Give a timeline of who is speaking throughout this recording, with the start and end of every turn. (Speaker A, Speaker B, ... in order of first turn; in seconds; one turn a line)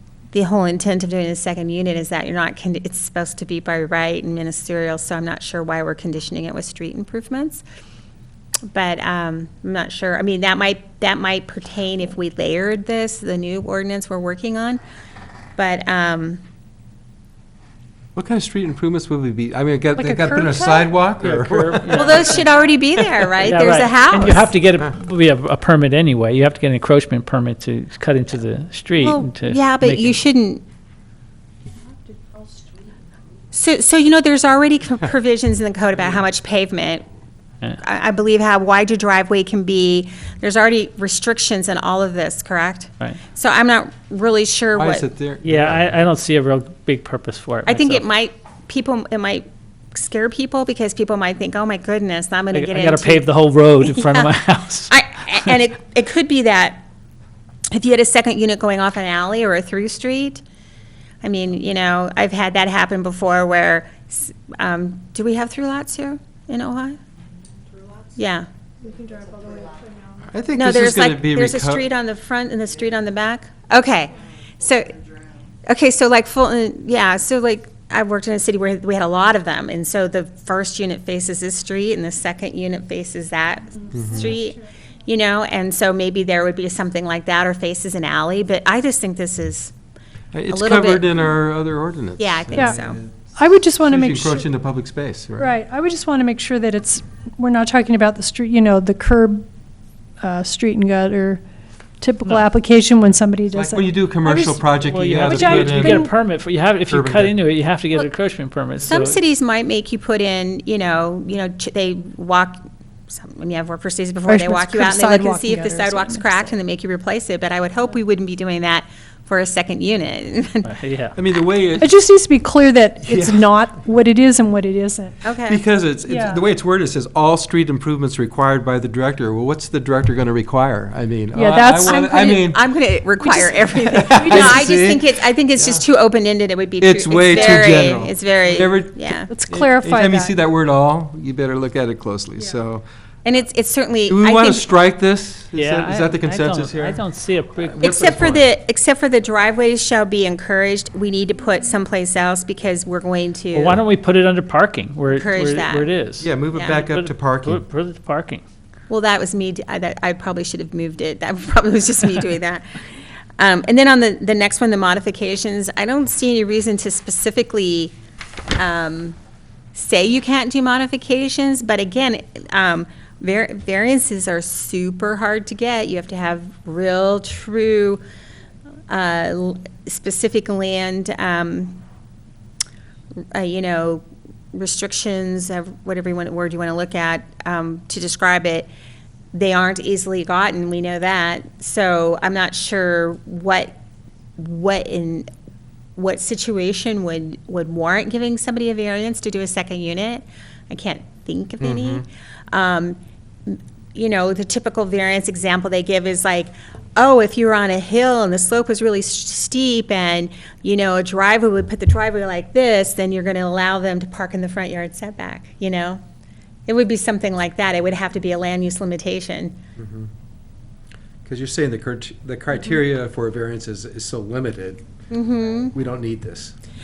Speaker A: 0.3-7.6
Speaker A: 8.7-14.8
Speaker A: 15.6-16.4
Speaker B: 18.1-22.3
Speaker C: 20.0-20.9
Speaker D: 21.2-22.4
Speaker A: 21.9-24.5
Speaker B: 23.0-23.2
Speaker D: 23.4-30.2
Speaker A: 29.0-30.6
Speaker A: 33.5-37.0
Speaker A: 37.8-45.0
Speaker B: 44.7-45.9
Speaker D: 45.4-48.0
Speaker A: 47.6-53.3
Speaker D: 52.5-54.9
Speaker A: 53.8-54.3
Speaker A: 54.9-56.8
Speaker A: 57.7-60.4
Speaker A: 61.2-67.0
Speaker A: 68.1-68.5
Speaker C: 68.8-70.2
Speaker B: 70.3-71.8
Speaker A: 70.5-74.9
Speaker A: 75.6-89.7
Speaker B: 83.9-84.3
Speaker B: 90.3-93.1
Speaker A: 90.5-91.1
Speaker A: 92.2-93.0
Speaker C: 93.3-94.4
Speaker B: 93.8-95.5
Speaker C: 95.4-99.5
Speaker C: 100.2-101.4
Speaker C: 102.0-106.1
Speaker D: 102.2-102.5
Speaker B: 103.5-106.1
Speaker D: 104.8-109.2
Speaker B: 106.9-107.3
Speaker A: 108.8-120.7
Speaker C: 114.2-116.5
Speaker D: 120.6-121.1
Speaker B: 121.1-121.9
Speaker C: 121.8-125.2
Speaker B: 123.0-123.5
Speaker A: 125.2-125.6
Speaker B: 125.5-132.6
Speaker C: 126.1-126.4
Speaker C: 131.3-132.2
Speaker A: 131.8-139.3
Speaker B: 133.3-135.8
Speaker C: 134.1-134.7
Speaker B: 136.8-142.8
Speaker C: 139.3-140.3
Speaker A: 143.2-144.7
Speaker B: 144.1-147.1
Speaker D: 145.5-148.3
Speaker B: 147.6-148.4
Speaker A: 147.8-153.8
Speaker D: 153.5-158.4
Speaker A: 155.1-155.9
Speaker B: 156.2-157.6
Speaker A: 156.5-156.9
Speaker A: 158.9-162.6
Speaker A: 163.4-167.9
Speaker A: 168.5-169.2
Speaker A: 169.7-178.0
Speaker A: 178.9-181.8
Speaker A: 183.3-188.7
Speaker A: 189.3-193.7
Speaker A: 194.4-195.3
Speaker A: 196.0-216.0
Speaker B: 201.6-202.0
Speaker A: 216.7-219.6
Speaker B: 219.8-220.1
Speaker B: 221.2-224.8
Speaker A: 225.1-225.7
Speaker B: 225.7-226.5